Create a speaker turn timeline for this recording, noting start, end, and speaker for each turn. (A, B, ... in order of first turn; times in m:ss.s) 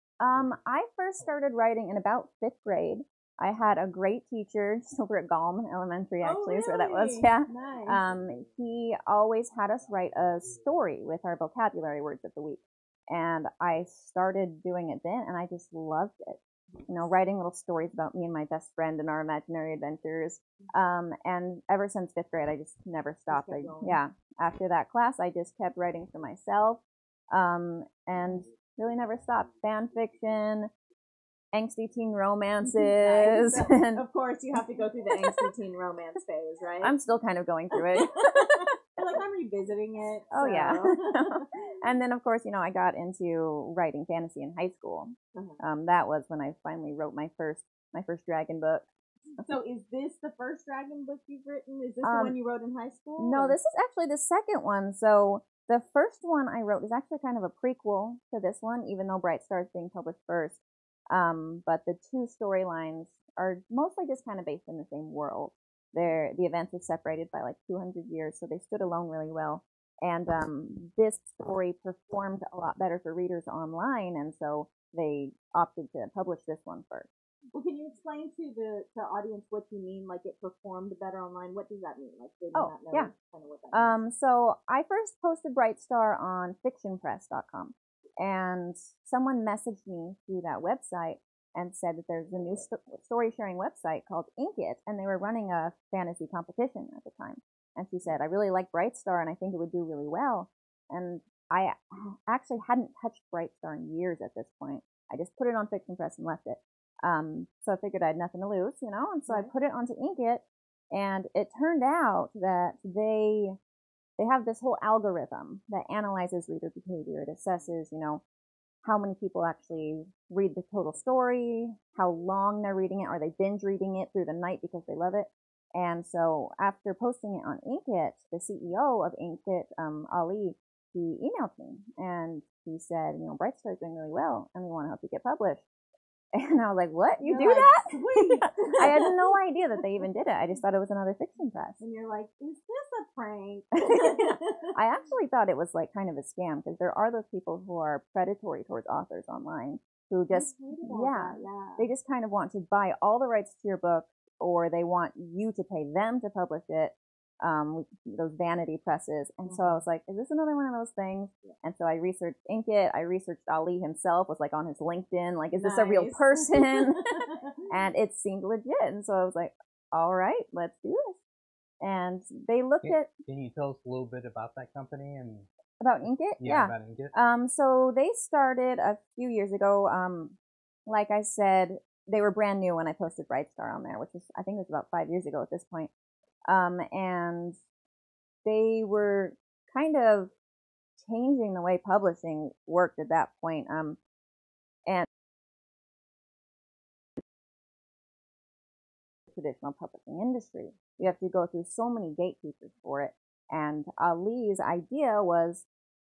0:00.2-0:30.7 A
0:06.2-0:08.0 B
0:23.3-0:24.0 B
0:31.5-0:34.0 A
0:32.6-0:36.9 B
0:34.6-0:35.5 A
0:36.8-0:38.7 A
0:37.7-0:41.5 B
0:40.3-0:48.9 A
0:45.4-0:45.6 B
0:49.4-0:53.6 B
0:52.0-0:52.4 A
0:53.2-1:17.1 A
1:17.5-1:24.0 B
1:22.5-1:23.1 A
1:23.7-1:53.6 A
1:54.2-1:58.2 A
1:58.8-2:15.7 A
2:16.3-2:21.8 A
2:17.2-2:19.3 B
2:21.8-2:24.8 B
2:23.9-2:47.2 A
2:30.3-2:31.9 B
2:39.4-2:39.8 B
2:45.6-2:47.7 B
2:47.7-2:51.2 A
2:51.8-2:53.1 A
2:52.8-2:55.5 C
2:55.8-3:05.9 A
2:56.4-2:57.1 C
3:06.5-3:07.6 A
3:08.4-3:10.3 A
3:11.0-3:14.0 A
3:19.3-3:25.7 A